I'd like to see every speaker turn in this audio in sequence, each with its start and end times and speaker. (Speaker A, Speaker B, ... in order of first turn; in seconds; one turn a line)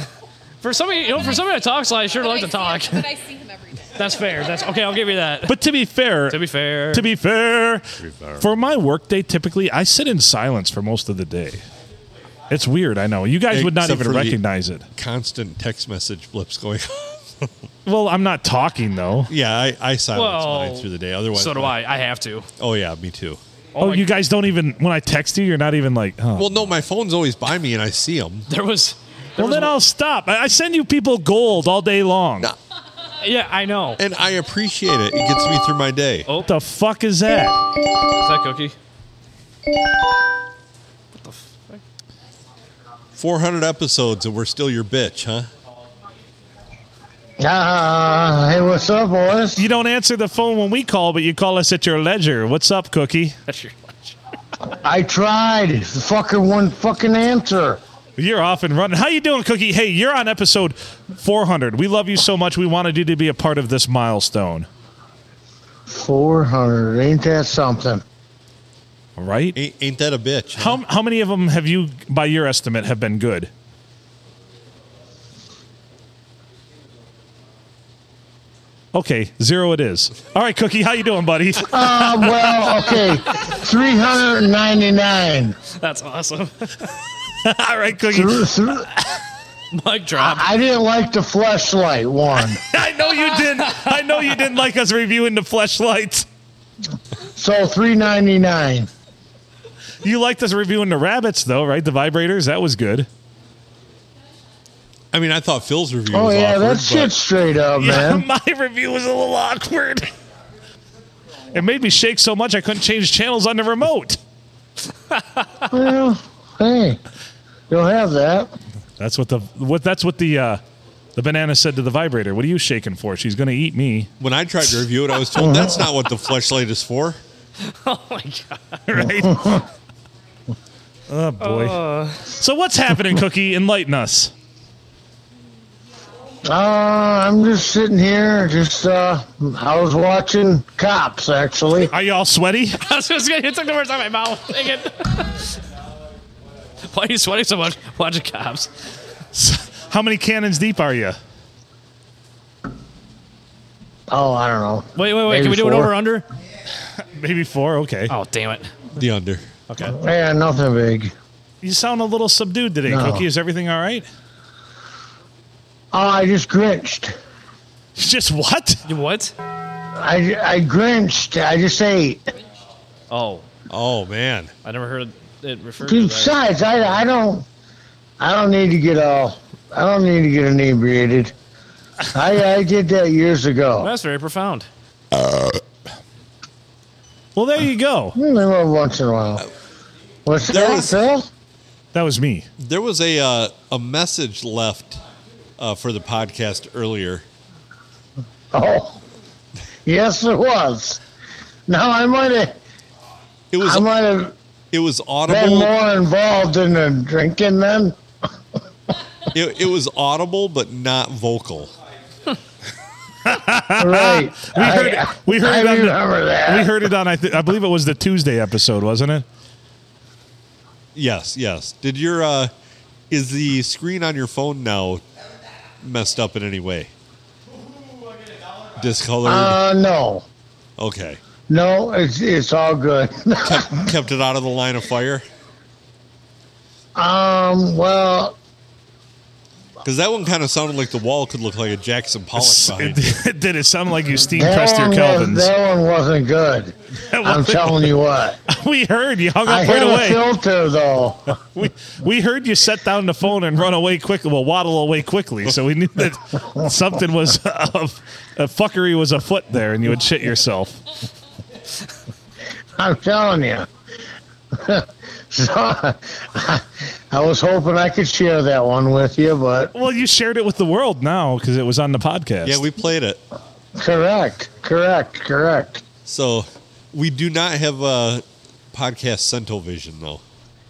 Speaker A: 0.6-3.1
Speaker B: 2.1-4.8
Speaker A: 3.9-5.6
Speaker C: 5.5-6.4
Speaker A: 6.3-7.1
Speaker C: 6.9-7.9
Speaker D: 8.1-8.3
Speaker C: 8.4-11.6
Speaker C: 12.5-14.9
Speaker D: 13.5-14.4
Speaker D: 14.9-17.5
Speaker C: 17.9-19.3
Speaker D: 19.3-21.8
Speaker A: 20.1-22.5
Speaker D: 22.6-23.4
Speaker A: 23.8-24.1
Speaker C: 23.8-26.5
Speaker D: 26.4-28.5
Speaker A: 28.5-29.8
Speaker C: 29.4-32.5
Speaker A: 33.2-34.0
Speaker D: 34.0-36.3
Speaker C: 36.4-37.6
Speaker A: 38.2-38.8
Speaker A: 41.2-41.8
Speaker D: 43.2-45.5
Speaker E: 47.4-49.6
Speaker C: 49.6-53.4
Speaker A: 53.5-54.2
Speaker E: 54.8-57.8
Speaker C: 58.2-64.7
Speaker E: 65.9-68.0
Speaker C: 69.2-69.6
Speaker D: 69.5-70.8
Speaker C: 70.6-73.5
Speaker C: 78.9-82.9
Speaker E: 81.7-85.6
Speaker A: 85.8-86.9
Speaker C: 87.4-88.9
Speaker E: 88.1-88.9
Speaker A: 89.7-90.5
Speaker E: 90.2-92.6
Speaker C: 92.7-96.2
Speaker A: 93.5-94.4
Speaker E: 97.4-98.9
Speaker C: 100.0-103.1
Speaker D: 105.1-107.1
Speaker E: 106.1-108.2
Speaker C: 107.8-110.1
Speaker C: 111.5-114.2
Speaker E: 115.7-117.0
Speaker E: 117.7-118.5
Speaker C: 119.0-120.6
Speaker C: 121.2-124.1
Speaker D: 124.2-127.2
Speaker E: 125.4-125.9
Speaker A: 127.7-128.8
Speaker C: 128.9-129.6
Speaker E: 129.3-129.6
Speaker C: 131.1-131.8
Speaker A: 131.4-132.2
Speaker C: 132.3-134.3
Speaker E: 136.4-141.9
Speaker C: 141.9-142.8
Speaker A: 142.8-145.5
Speaker A: 146.8-148.7
Speaker C: 149.3-151.2
Speaker E: 154.1-155.9
Speaker A: 154.9-156.2
Speaker C: 157.2-158.1
Speaker A: 158.1-158.9
Speaker D: 159.0-159.4
Speaker A: 159.7-160.0
Speaker E: 159.8-161.1
Speaker C: 161.6-164.1
Speaker E: 162.9-163.2
Speaker E: 165.9-167.2
Speaker C: 167.9-168.8
Speaker A: 168.9-169.3
Speaker E: 169.9-172.2
Speaker A: 173.1-173.4
Speaker D: 173.7-174.5
Speaker A: 174.6-176.4
Speaker E: 175.8-177.4
Speaker E: 178.2-181.3
Speaker E: 182.1-183.9
Speaker A: 183.8-184.7
Speaker C: 187.4-188.2
Speaker E: 188.2-189.4
Speaker E: 190.3-191.3
Speaker D: 190.5-190.9
Speaker C: 191.9-192.5
Speaker D: 192.6-195.0
Speaker D: 195.6-197.2
Speaker E: 198.5-199.0
Speaker E: 199.9-201.0
Speaker E: 201.7-202.6
Speaker D: 203.5-203.8
Speaker E: 203.6-204.3
Speaker D: 204.7-205.7
Speaker E: 205.3-207.9
Speaker D: 209.3-211.7
Speaker C: 213.3-219.3
Speaker E: 213.8-216.8
Speaker D: 220.9-222.5
Speaker D: 223.1-225.0
Speaker D: 225.8-226.9
Speaker D: 228.8-229.6
Speaker E: 229.2-230.3
Speaker D: 230.8-231.2
Speaker E: 231.5-233.9
Speaker D: 233.4-235.2
Speaker E: 236.9-238.4
Speaker D: 239.8-243.2
Speaker C: 242.4-245.5
Speaker E: 244.3-248.4
Speaker C: 247.0-247.9
Speaker C: 248.5-250.2
Speaker E: 249.4-251.3
Speaker C: 251.5-260.8
Speaker E: 262.8-263.7
Speaker E: 264.5-269.7
Speaker C: 269.7-272.6
Speaker D: 272.4-273.2
Speaker E: 273.8-275.8
Speaker D: 276.1-280.2